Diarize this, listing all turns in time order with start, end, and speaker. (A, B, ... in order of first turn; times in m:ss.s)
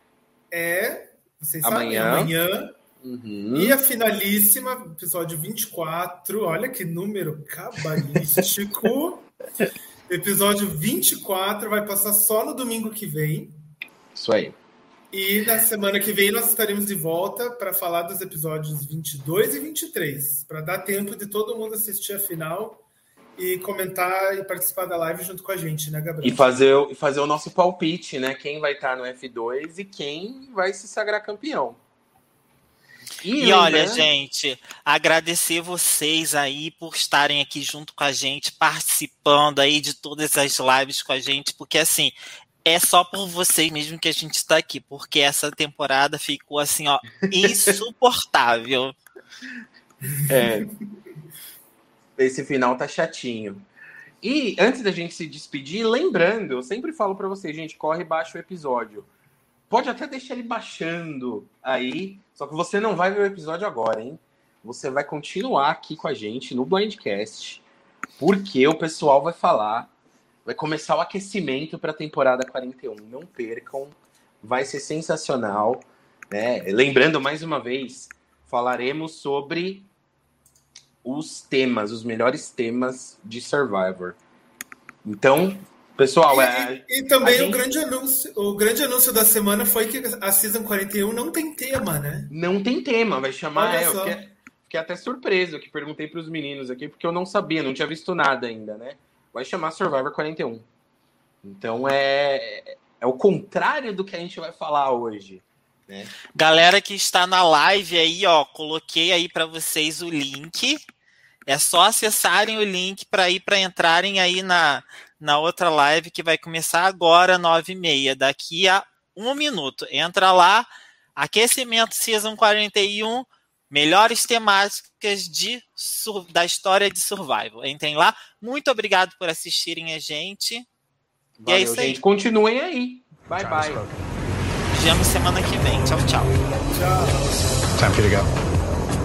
0:00.5-0:02.7 A
0:01.6-0:02.3 B
0:03.0-0:03.8 B
0:03.6-0:09.3 A
0:10.1-0:13.6 A
0:14.2-0:14.6 B
0:15.1-0:22.8 A
0:23.4-0:26.5 A
0:26.2-0:31.8 B
0:33.2-0:34.1 B
0:33.4-0:49.0 C
0:47.3-0:47.8 B
0:50.2-0:50.7 A
0:50.3-0:50.7 B
0:52.2-0:53.7 B
0:54.2-0:59.1 B
0:59.7-1:07.6 B
1:08.2-1:09.9 B
1:10.5-1:19.9 B
1:21.0-1:24.2 B
1:25.0-1:27.6 B
1:26.3-1:32.3 A
1:32.3-1:40.7 B
1:33.6-1:34.2 A
1:41.4-1:46.1 B
1:46.4-1:50.8 C
1:51.5-2:10.7 C
2:11.4-2:13.9 B
2:11.5-2:12.0 C
2:14.7-2:16.4 C
2:16.6-2:18.0 A